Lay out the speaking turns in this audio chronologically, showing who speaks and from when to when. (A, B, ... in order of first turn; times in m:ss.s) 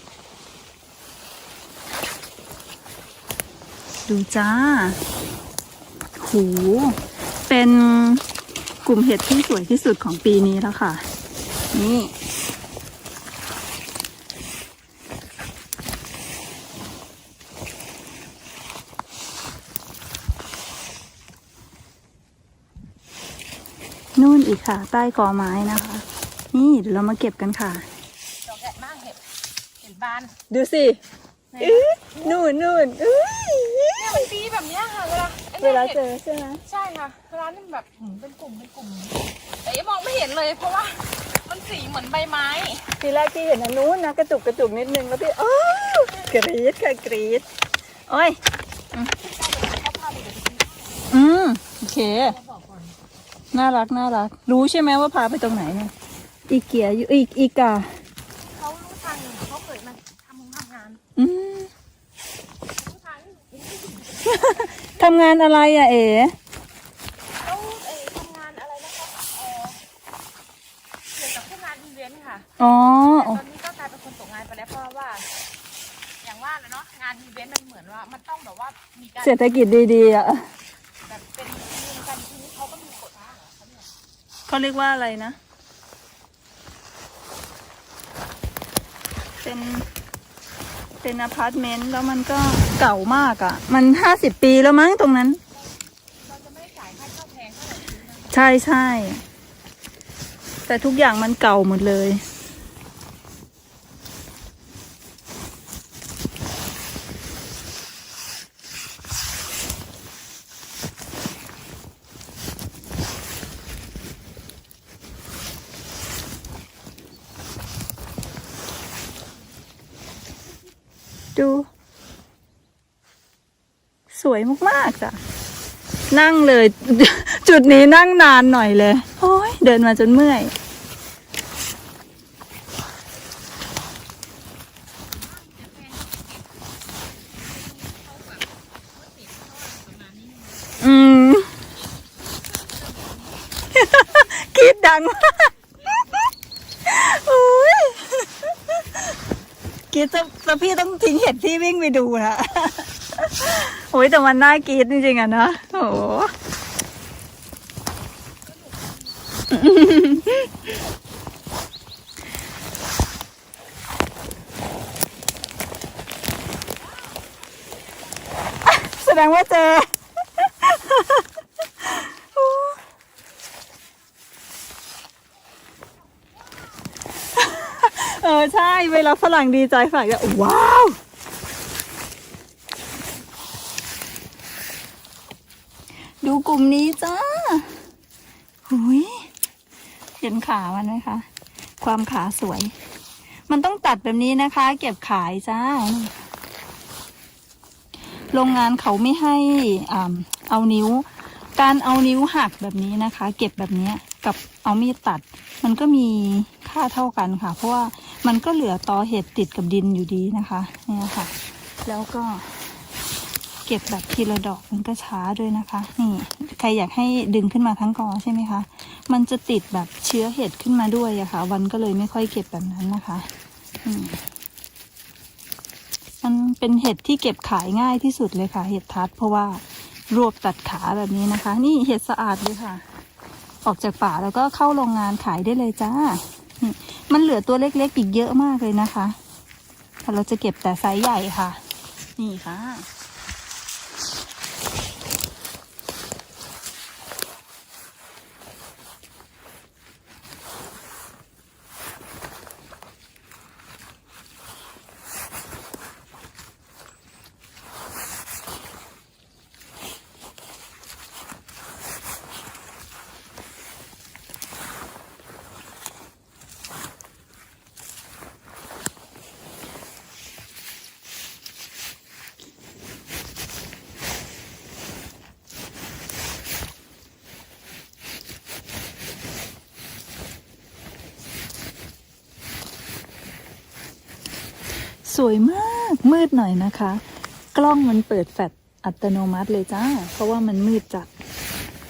0:04.1-0:05.0 A
0:06.2-0:08.2 A
0:08.8-0:11.0 A
0:11.7-0:12.1 A
0:24.2-0:27.8 A
0:28.5-0:29.2 B
0:29.8-0:30.4 B
0:30.5-0:31.0 A
0:31.5-0:32.3 B
0:31.6-0:34.3 A
0:34.0-0:36.0 B
0:35.6-0:36.6 A
0:36.7-0:42.9 B
0:43.0-0:47.4 A
0:48.1-0:48.4 A
0:49.1-0:51.1 B
0:51.1-0:52.4 A
0:52.2-0:53.0 B
0:53.5-0:55.9 A
0:56.5-0:57.9 A
0:58.5-1:01.0 B
1:01.2-1:01.7 A
1:02.8-1:04.6 B
1:04.2-1:06.4 A
1:07.4-1:09.8 B
1:11.1-1:12.5 B
1:12.6-1:13.4 A
1:13.1-1:15.3 B
1:16.2-1:19.6 B
1:19.2-1:20.5 A
1:21.0-1:23.9 B
1:24.5-1:25.4 A
1:29.4-1:29.9 A
1:31.0-1:35.4 A
1:36.2-1:38.3 B
1:38.3-1:39.2 A
1:40.7-1:42.2 A
2:01.4-2:01.7 A
2:04.1-2:05.2 A
2:06.1-2:10.5 A
2:15.1-2:16.5 B
2:17.4-2:20.8 B
2:20.8-2:21.5 A
2:22.4-2:23.4 B
2:23.7-2:26.2 A
2:26.8-2:28.8 A
2:29.9-2:36.3 A
2:39.5-2:40.5 A
2:48.7-2:51.2 A
2:51.8-2:52.8 A
2:57.4-3:01.0 A
3:06.2-3:07.8 A
3:08.7-3:09.3 A
3:10.2-3:11.3 A
3:11.8-3:12.7 A
3:13.5-3:16.2 A
3:18.3-3:31.3 A
3:31.8-3:32.5 A
3:33.6-3:43.3 A
3:43.8-3:44.2 A
3:46.2-3:52.8 A
3:53.6-3:59.2 A
4:00.0-4:01.6 A
4:02.2-4:02.9 A
4:45.0-4:47.0 A
4:47.5-4:51.1 A